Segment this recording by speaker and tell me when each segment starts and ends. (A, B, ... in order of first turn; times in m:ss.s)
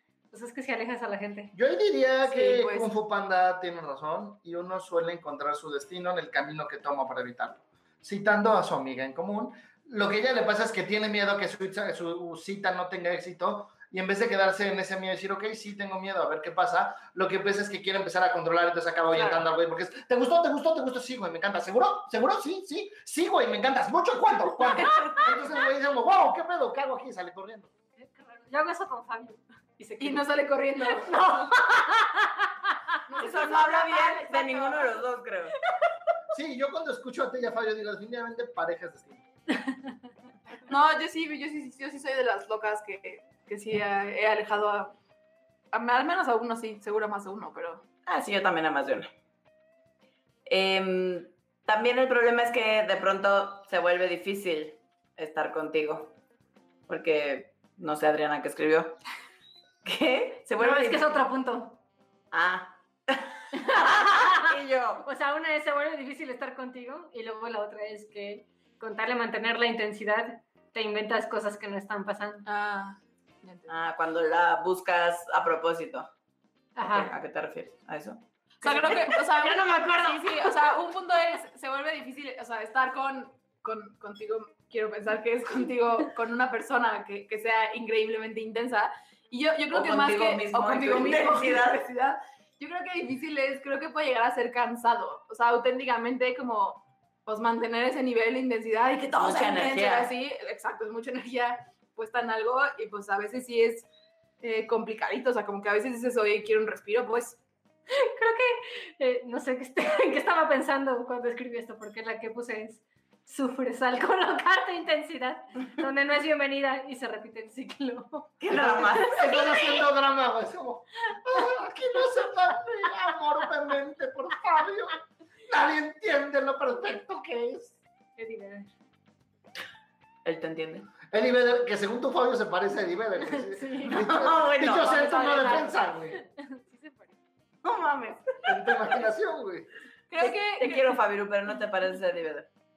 0:00.3-0:01.5 A
0:01.5-0:27.7 B
0:02.2-0:02.9 C
0:19.2-0:19.4 A
0:28.0-0:30.2 A
0:30.0-0:31.5 C
0:31.0-0:32.7 A
0:33.1-0:35.0 C
0:33.2-0:35.6 D
0:36.3-0:39.2 B
0:40.7-0:45.0 C
0:45.7-0:47.8 C
0:48.1-0:49.1 D
0:50.5-0:56.2 D
0:56.9-0:59.0 D
0:59.8-1:01.1 D
1:00.6-1:01.8 A
1:02.3-1:05.1 D
1:03.5-1:04.5 A
1:05.0-1:12.5 A
1:12.5-1:13.8 C
1:13.7-1:16.1 D
1:16.8-1:17.1 A
1:16.8-1:18.2 D
1:18.6-1:43.9 C
1:18.6-1:20.6 A
1:29.7-1:31.8 D
1:39.1-1:40.1 D
1:44.4-1:47.4 C
1:47.9-1:58.4 A
1:58.4-1:59.8 D
1:58.5-2:07.8 B
2:08.2-2:08.7 A
2:10.2-2:10.9 D
2:11.1-2:16.2 B
2:13.3-2:14.1 A
2:13.9-2:15.6 D
2:14.8-2:17.1 A
2:17.6-2:18.7 D
2:18.4-2:19.7 B
2:20.1-2:21.0 C
2:20.2-2:22.5 D